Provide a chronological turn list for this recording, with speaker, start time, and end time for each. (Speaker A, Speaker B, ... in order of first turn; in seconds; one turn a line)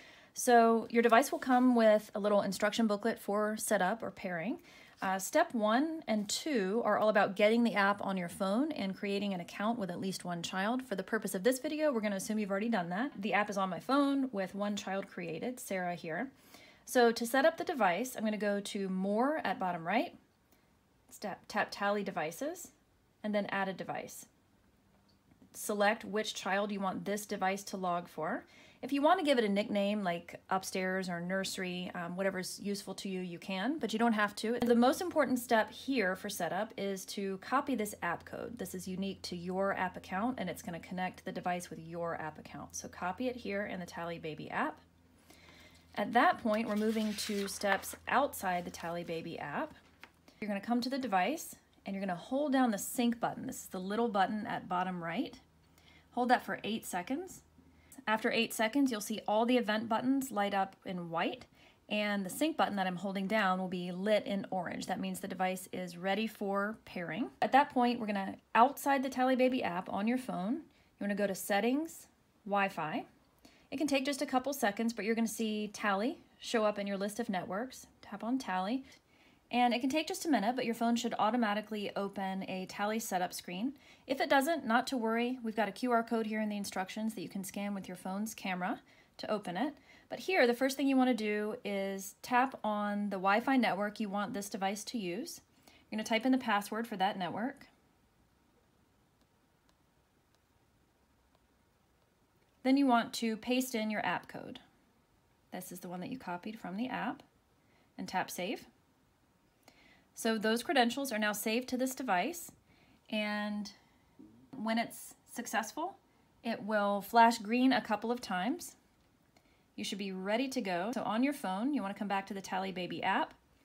Speaker A: 0.3-16.3
Speaker A: 16.9-20.1
Speaker A: 21.1-24.3
Speaker A: 25.5-44.8
Speaker A: 46.0-49.7
Speaker A: 50.4-55.4
Speaker A: 56.1-57.4
Speaker A: 58.1-73.1
Speaker A: 73.7-78.9
Speaker A: 79.5-97.7
Speaker A: 102.6-104.6
Speaker A: 105.5-107.2
Speaker A: 108.0-108.7
Speaker A: 110.2-112.5
Speaker A: 113.1-113.8
Speaker A: 114.5-118.8
Speaker A: 119.8-123.4